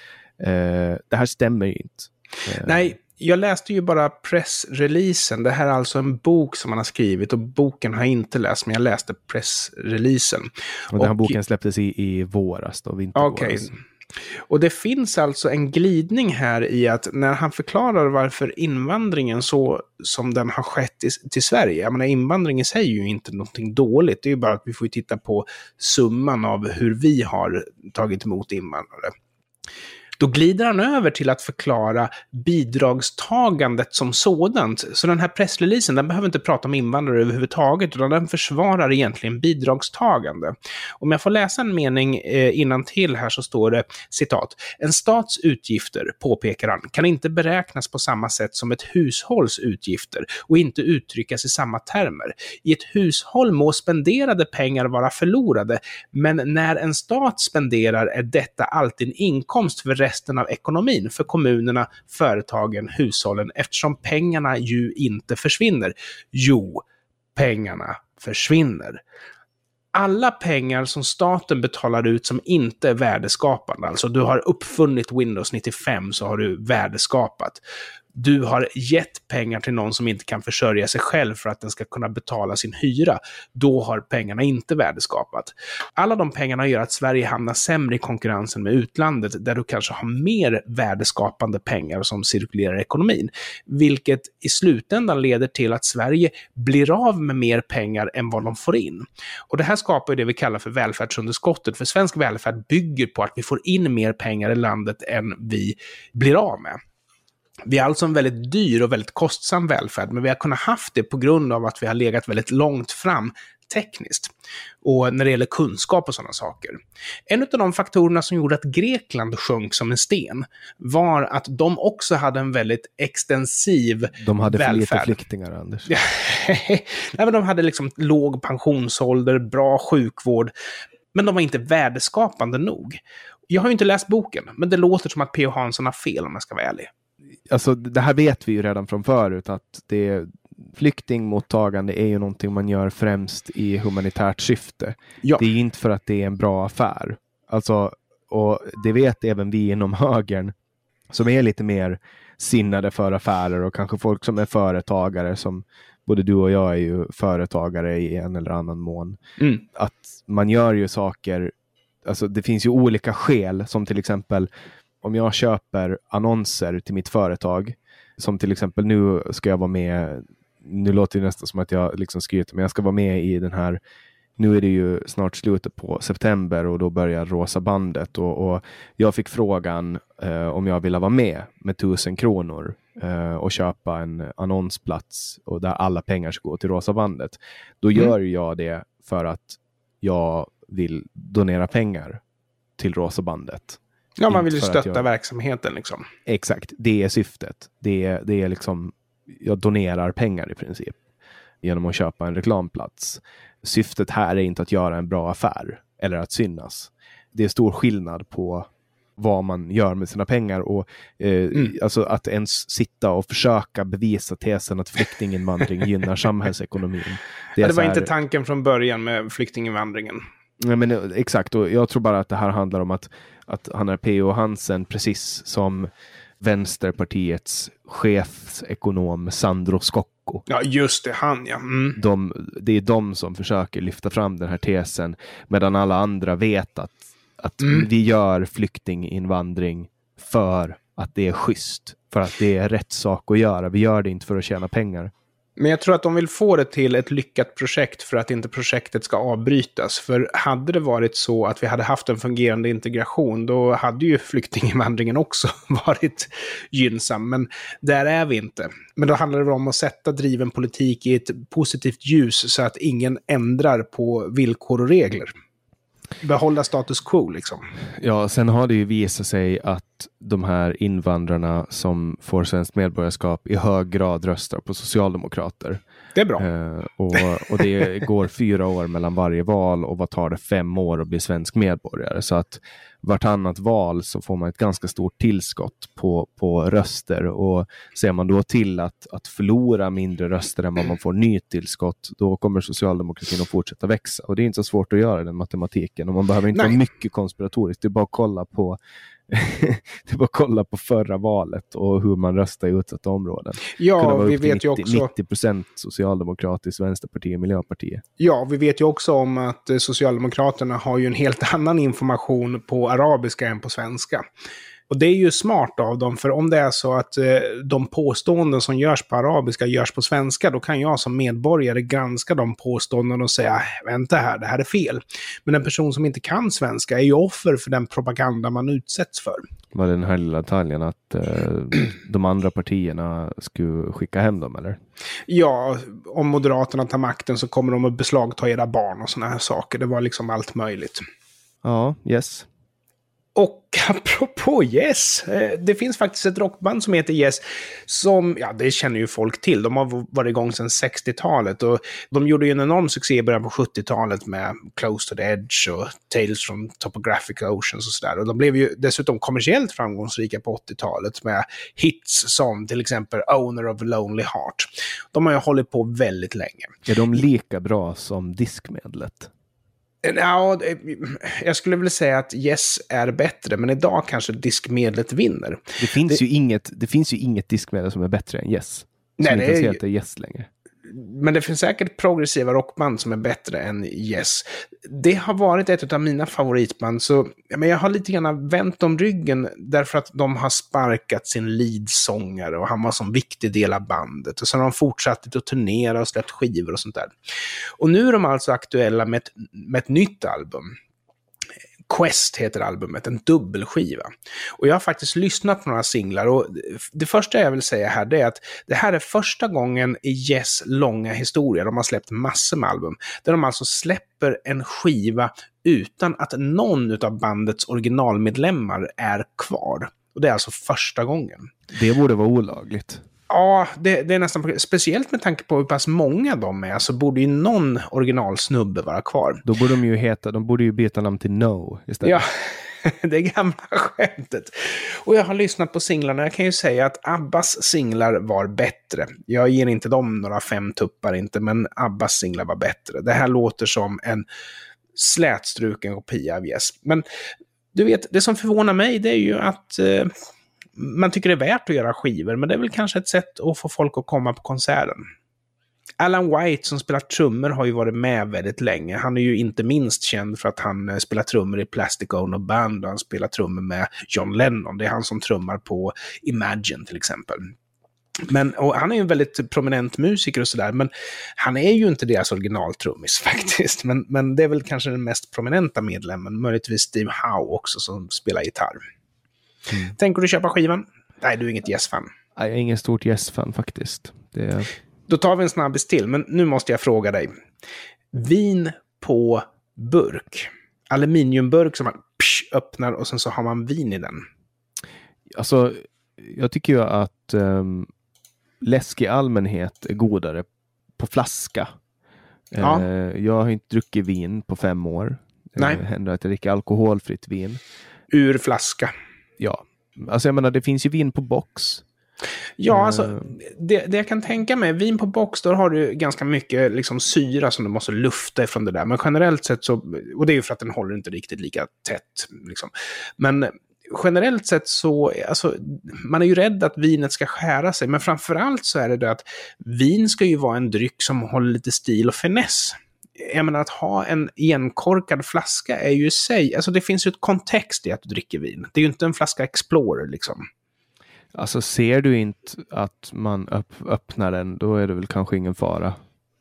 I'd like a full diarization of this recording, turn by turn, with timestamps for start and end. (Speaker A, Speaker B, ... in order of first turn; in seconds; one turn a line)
Speaker A: 0.4-2.9
Speaker B: 2.6-11.3
Speaker A: 10.9-13.7
Speaker B: 13.2-13.8
Speaker B: 14.5-29.1
Speaker B: 30.2-66.8
Speaker B: 67.3-69.0
Speaker B: 69.9-77.6
Speaker B: 78.1-106.8
Speaker B: 107.7-114.3
Speaker B: 114.8-125.2
Speaker A: 124.2-125.9
Speaker B: 125.9-130.5
Speaker B: 131.1-136.9
Speaker A: 137.5-150.5
Speaker A: 151.1-159.2
Speaker B: 159.4-159.6
Speaker A: 159.7-161.5
Speaker A: 162.1-164.5
Speaker A: 165.0-173.8
Speaker A: 174.4-192.2
Speaker A: 192.8-195.1
Speaker B: 194.2-196.1
Speaker A: 196.3-201.0
Speaker A: 201.6-218.1
Speaker B: 217.6-220.2
Speaker A: 220.6-225.9
Speaker A: 226.4-230.4
Speaker B: 230.5-232.0
Speaker A: 232.0-245.1
Speaker B: 245.6-265.3
Speaker B: 266.2-267.7
Speaker A: 268.0-275.8
Speaker B: 276.2-276.5
Speaker A: 276.4-298.8
Speaker B: 296.5-296.8
Speaker A: 299.3-308.0
Speaker B: 303.7-305.1
Speaker B: 308.2-314.2
Speaker B: 314.9-329.4
Speaker A: 329.7-334.8
Speaker B: 335.3-341.0
Speaker A: 341.6-342.5
Speaker B: 343.4-366.7
Speaker A: 366.9-369.3
Speaker B: 370.0-376.2
Speaker A: 375.8-380.5
Speaker B: 379.2-379.8
Speaker B: 380.9-397.1
Speaker B: 397.8-400.7
Speaker B: 401.9-421.5
Speaker A: 421.7-423.0
Speaker B: 423.3-429.4
Speaker A: 429.4-432.2
Speaker B: 432.0-444.3
Speaker B: 444.9-447.0
Speaker B: 447.7-450.1
Speaker B: 450.8-455.0
Speaker B: 456.0-467.5
Speaker B: 468.2-478.8
Speaker B: 479.9-482.1
Speaker A: 482.4-484.7
Speaker B: 485.1-487.3
Speaker B: 488.1-494.3
Speaker A: 495.3-497.9
Speaker A: 498.6-500.5
Speaker A: 501.0-501.7
Speaker A: 502.5-507.6
Speaker B: 502.6-502.9
Speaker B: 508.1-508.9
Speaker A: 509.4-511.8
Speaker B: 512.6-540.5
Speaker A: 512.7-513.3
Speaker A: 541.3-546.0